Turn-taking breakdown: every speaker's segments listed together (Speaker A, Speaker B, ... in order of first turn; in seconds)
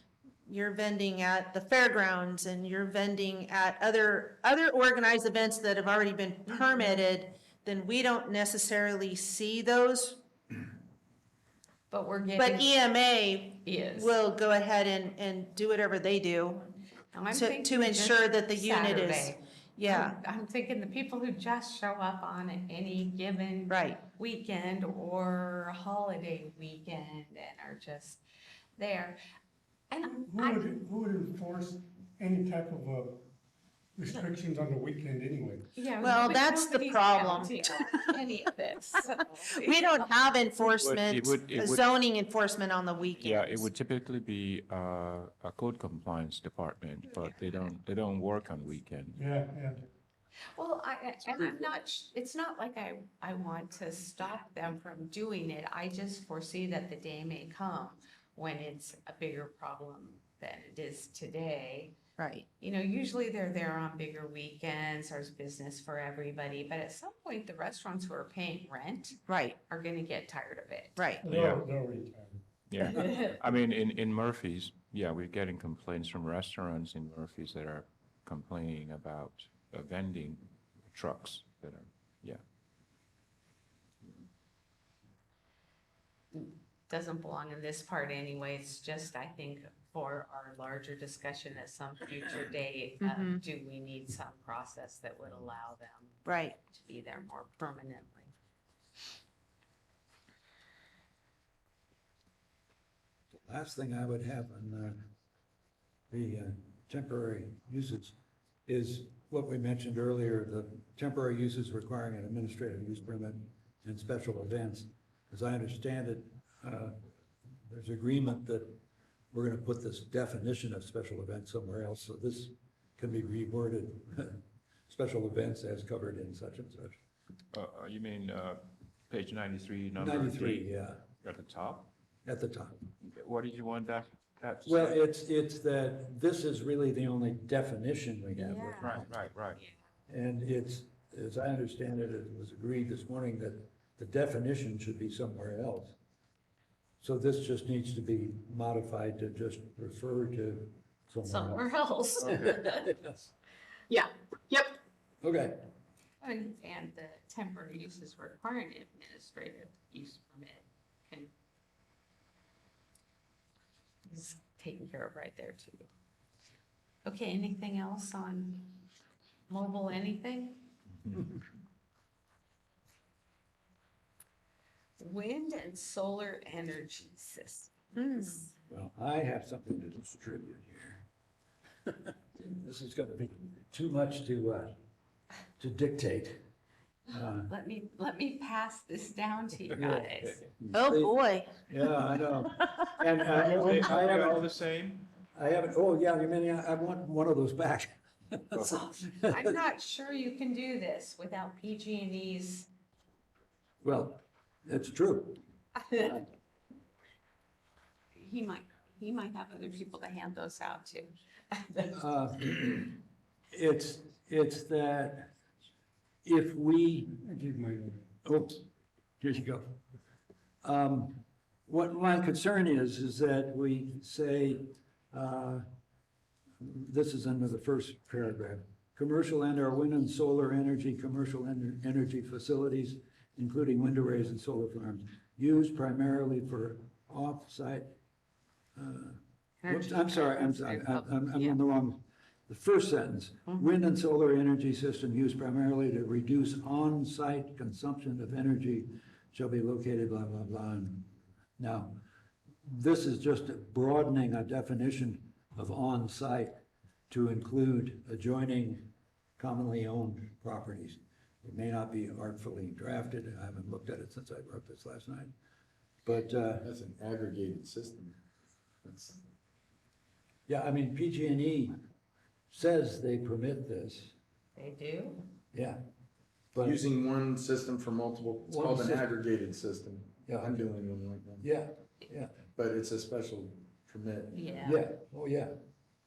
Speaker A: 0.5-10.2, 12.4-16.7, 17.3-20.1, 23.7-24.0, 36.0-38.1, 39.3-43.7, 62.2-62.5, 69.3-69.6, 71.0-71.2, 93.0-93.4, 96.2-96.5, 177.9-178.4, 190.7-191.6
Speaker B: 6.5-6.8, 11.9-12.7, 13.6-14.1, 17.1-28.2, 28.8-29.2, 29.9-30.6, 35.8-40.1, 50.5-61.9, 62.6-71.1, 72.8-73.3, 86.3-98.3, 138.3-139.0, 151.2-153.0, 156.2-161.3, 164.1-165.9, 167.0-168.8, 169.5-170.7, 175.0-178.5, 187.5-190.4, 199.1-202.7, 205.8-206.2, 208.2-212.1, 239.6-241.6, 274.6-275.2, 284.3-284.8
Speaker C: 30.1-33.2, 34.0-35.7, 49.1-49.9, 71.2-72.4, 217.2-218.0
Speaker D: 40.7-41.9, 43.2-49.2, 71.2-71.6, 72.7-82.4, 127.5-130.7, 131.2-131.9, 133.0-135.0, 138.8-139.6, 193.3-195.1, 198.5-198.9
Speaker E: 103.4-105.0, 106.1-108.1, 108.7-117.0, 117.7-118.8, 119.3-127.0, 129.9-131.0, 132.2-132.8, 134.6-139.2, 140.1-145.9, 147.0-151.7, 152.3-153.3, 155.2-155.7, 178.7-181.0, 181.9-184.7, 185.6-186.4, 187.1-187.5, 189.7-190.1, 190.7-191.1, 191.7-194.5, 195.3-199.4, 203.8-205.4, 211.9-212.9, 213.5-215.3, 216.2-217.2, 218.2-218.6, 219.2-219.8, 220.6-225.6, 226.6-237.9, 238.8-252.0, 252.6-256.5, 257.1-265.3, 266.0-266.7, 270.5-271.8, 272.5-274.1, 275.5-275.8, 276.5-276.8, 278.5-279.1, 280.3-280.7, 281.4-282.4, 284.6-285.6
Speaker F: 266.6-268.1, 268.8-269.2, 276.6-281.5, 282.6-284.5